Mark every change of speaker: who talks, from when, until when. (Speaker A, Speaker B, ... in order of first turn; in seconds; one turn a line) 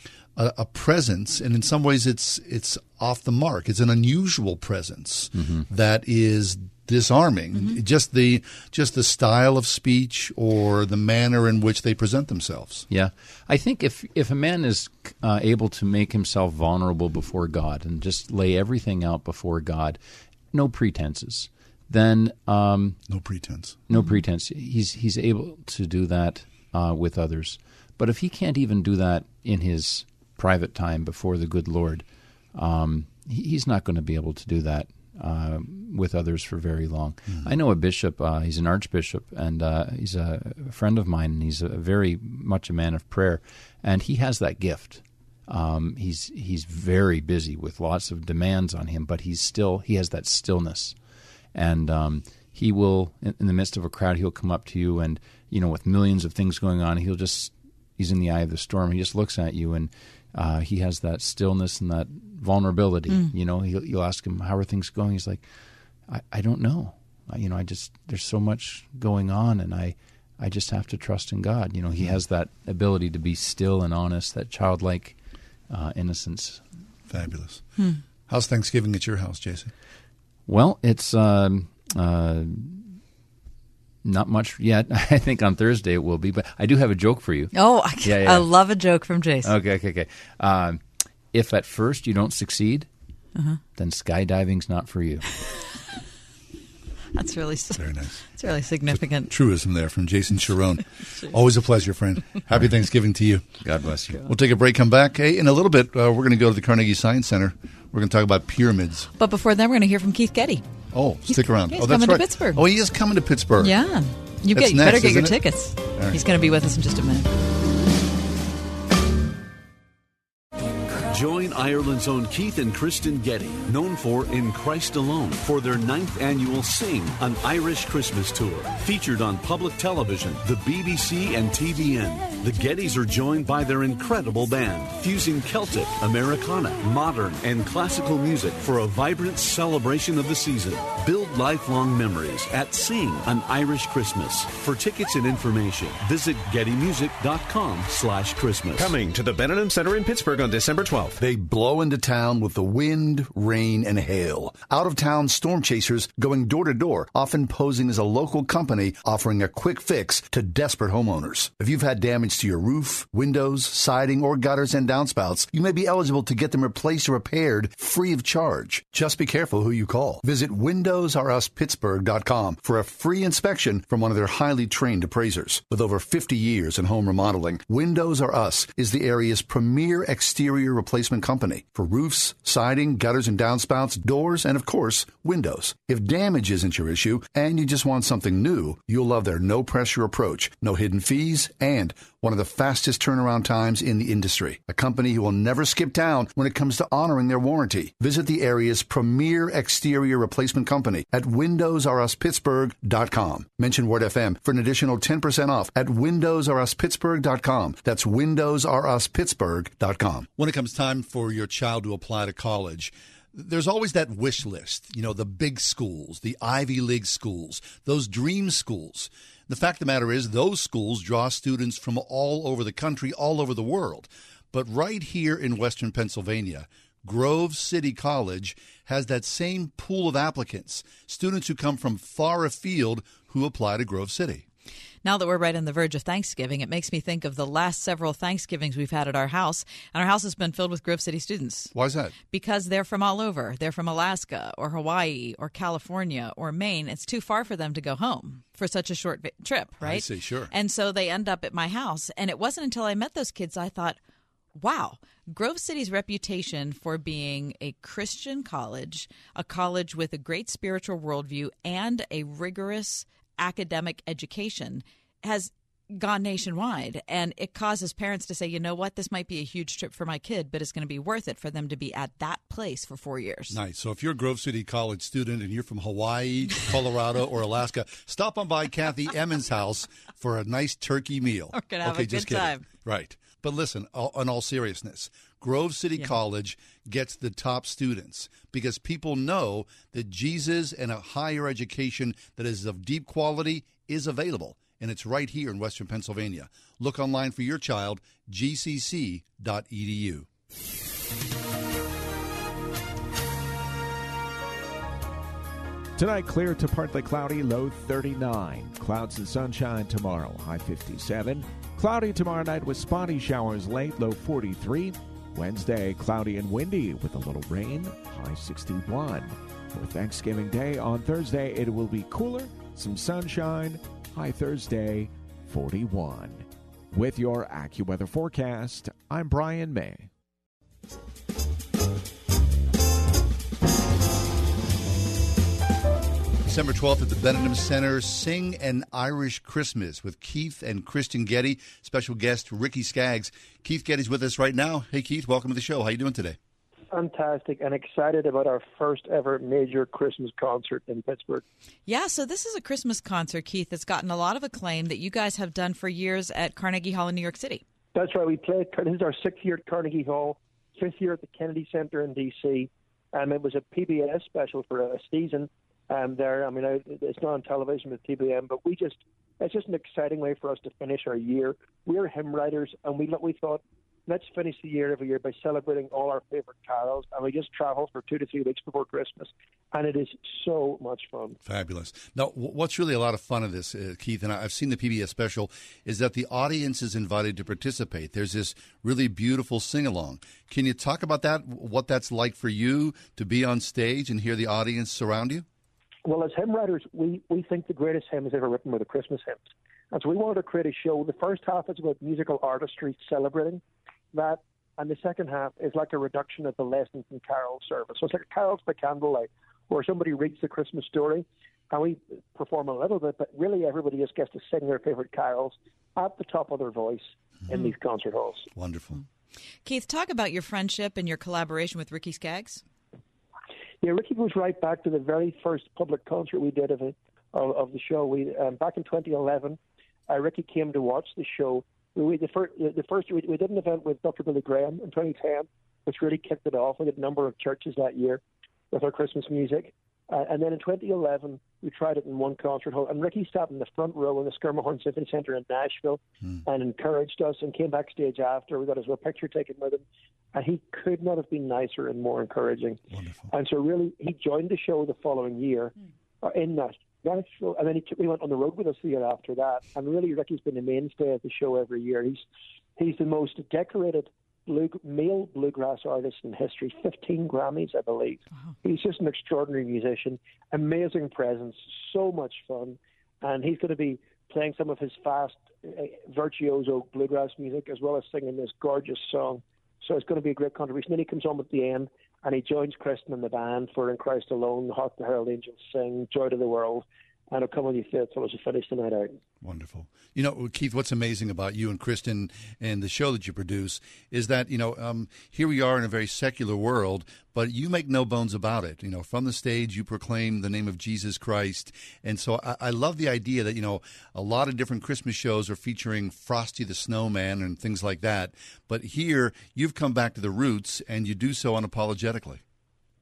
Speaker A: 0.4-12.9
Speaker B: 5.3-5.7
Speaker B: 12.9-20.0
Speaker B: 20.5-23.0
Speaker A: 23.1-23.8
Speaker B: 23.9-51.0
Speaker C: 23.9-24.2
Speaker B: 51.5-65.5
Speaker B: 66.1-75.2
Speaker B: 75.7-76.6
Speaker A: 77.1-77.7
Speaker A: 78.3-79.7
Speaker B: 80.5-83.0
Speaker B: 84.0-88.5
Speaker C: 87.5-89.5
Speaker B: 89.4-92.9
Speaker C: 93.3-93.6
Speaker B: 93.8-95.2
Speaker C: 97.2-99.3
Speaker A: 97.8-98.2
Speaker A: 98.9-103.5
Speaker B: 103.6-104.3
Speaker A: 104.2-109.1
Speaker C: 109.2-110.7
Speaker A: 110.9-113.8
Speaker C: 111.3-112.6
Speaker C: 113.6-117.3
Speaker A: 114.5-115.4
Speaker A: 116.0-116.2
Speaker D: 121.1-148.9
Speaker E: 148.9-151.1
Speaker A: 151.2-234.4
Speaker C: 235.0-241.7
Speaker A: 241.7-242.2
Speaker C: 242.3-254.0
Speaker A: 249.8-250.5
Speaker C: 254.6-273.6
Speaker A: 273.5-300.3
Speaker C: 281.5-282.6
Speaker F: 306.0-330.1
Speaker A: 336.5-346.4
Speaker G: 346.9-351.4
Speaker C: 351.9-357.6
Speaker G: 357.9-381.4
Speaker A: 381.4-395.5
Speaker G: 396.1-399.4
Speaker G: 399.9-403.6
Speaker G: 404.1-418.5
Speaker A: 418.6-419.0
Speaker C: 419.6-422.6
Speaker G: 423.8-429.6
Speaker G: 430.1-452.8
Speaker A: 452.9-453.3
Speaker G: 453.3-462.3
Speaker G: 462.8-489.1
Speaker A: 489.4-512.4